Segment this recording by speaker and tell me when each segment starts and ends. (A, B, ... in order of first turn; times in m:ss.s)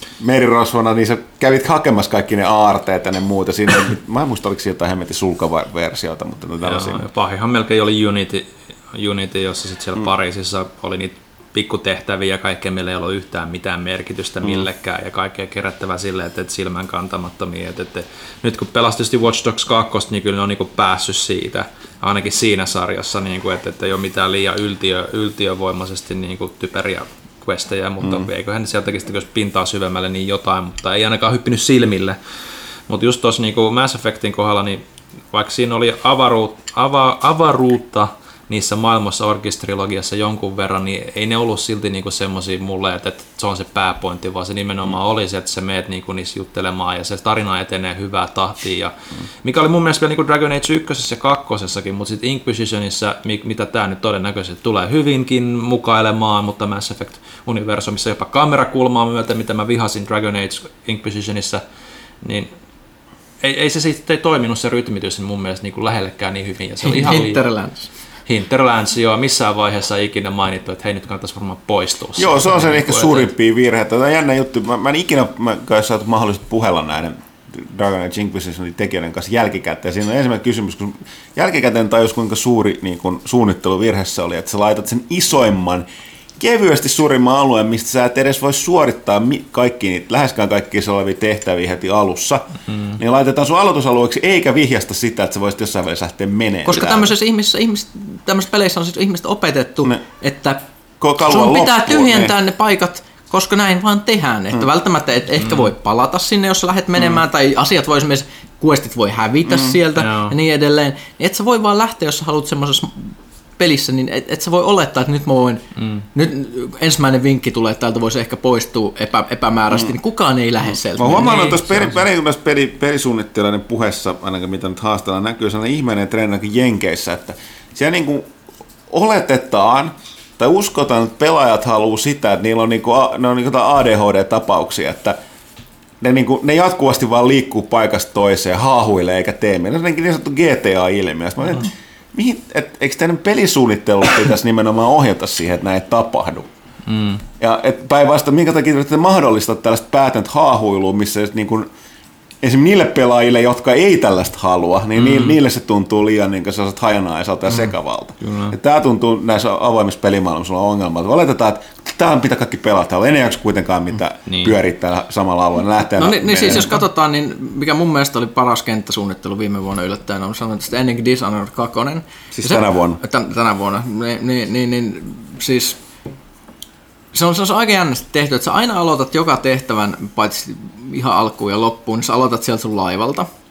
0:00.2-0:07.0 A
0:06.7-0:32.2 B
0:32.9-0:34.8 B
0:35.3-1:01.6 B
1:02.2-1:02.5 B
1:03.4-1:07.4 B
1:06.8-1:07.9 C
1:08.3-1:13.3 B
1:12.2-1:25.9 A
1:26.4-1:37.1 A
1:36.7-1:40.6 C
1:41.0-1:42.3 A
1:41.2-2:01.7 C
1:45.4-1:45.7 B
1:50.0-1:50.4 B
1:55.8-1:56.0 B
2:01.0-2:08.3 A
2:01.1-2:01.8 B
2:08.9-2:15.2 A
2:16.0-2:26.5 A
2:26.9-2:27.2 B
2:27.4-2:31.7 A
2:32.4-2:46.7 A
2:35.0-2:35.4 B
2:37.5-2:38.6 B
2:44.3-2:44.6 B
2:46.0-2:55.8 C
2:52.3-2:53.0 A
2:57.1-3:03.3 C